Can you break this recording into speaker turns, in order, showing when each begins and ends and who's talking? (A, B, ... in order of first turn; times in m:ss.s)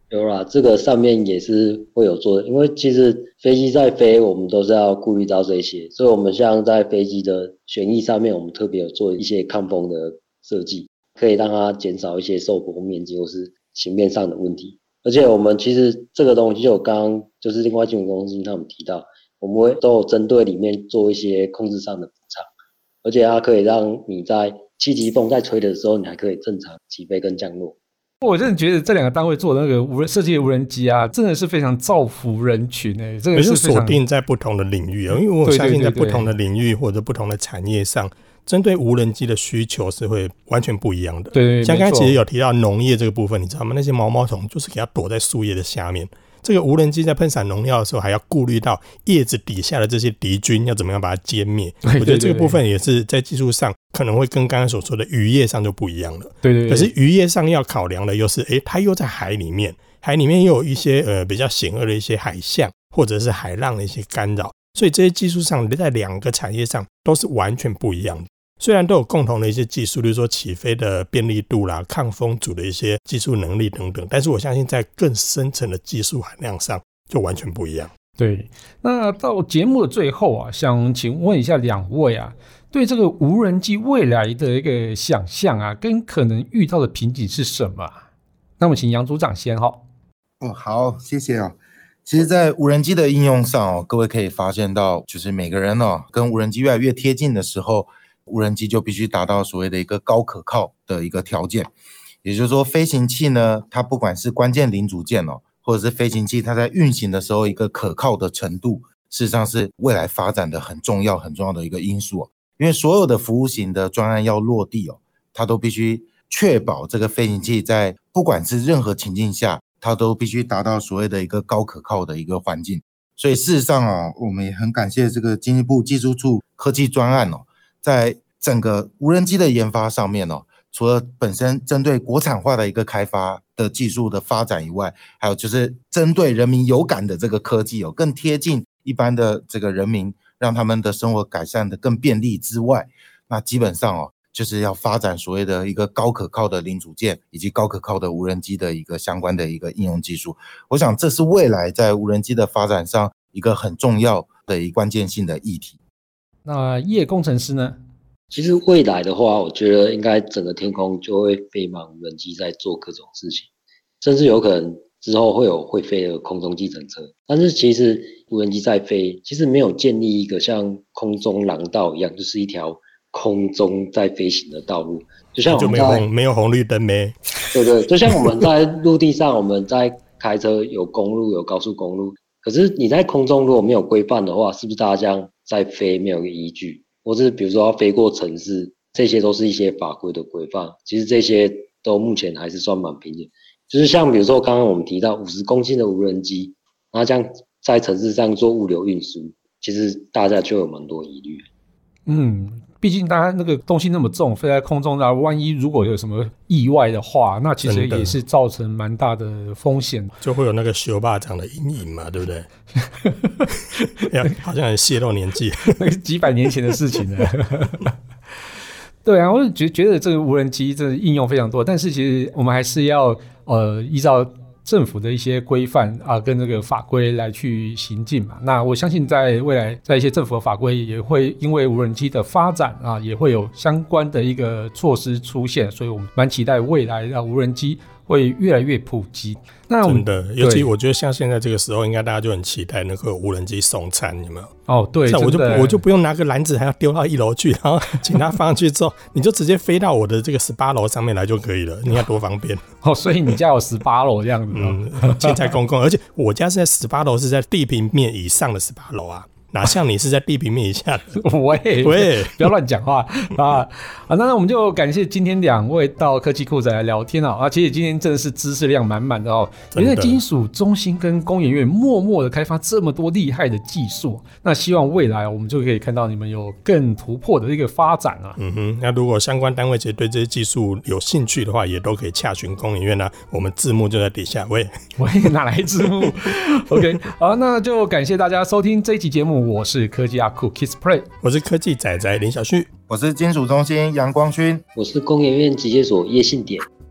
0:00.1-0:22.5 A
0:23.0-0:27.8 A
0:28.2-0:34.0 B
0:33.3-1:17.9 C
0:35.4-0:36.3 B
0:41.3-0:42.2 B
0:51.8-0:52.6 B
0:56.4-0:56.9 B
1:18.2-1:28.0 B
1:28.6-1:29.8 B
1:30.4-1:41.7 D
1:42.2-2:35.8 D
2:36.4-2:37.8 B
2:38.3-2:43.5 A
2:44.0-2:56.1 A
2:55.5-2:57.5 C
2:57.5-3:21.5 A
3:22.1-3:30.1 B
3:27.6-3:28.2 C
3:30.2-3:32.5 C
3:33.0-3:33.5 B
3:34.0-3:35.9 C
3:35.7-3:37.9 B
3:39.0-4:00.7 B
3:59.8-4:04.5 C
4:04.7-4:05.8 B
4:05.1-4:12.7 C
4:12.8-4:15.5 B
4:14.5-4:21.2 C
4:21.2-4:38.4 B
4:21.8-4:22.5 C
4:29.8-4:30.2 C
4:38.4-4:44.7 C
4:45.0-4:51.1 B
4:51.2-4:52.7 C
4:52.9-4:54.6 D
4:54.8-4:56.7 A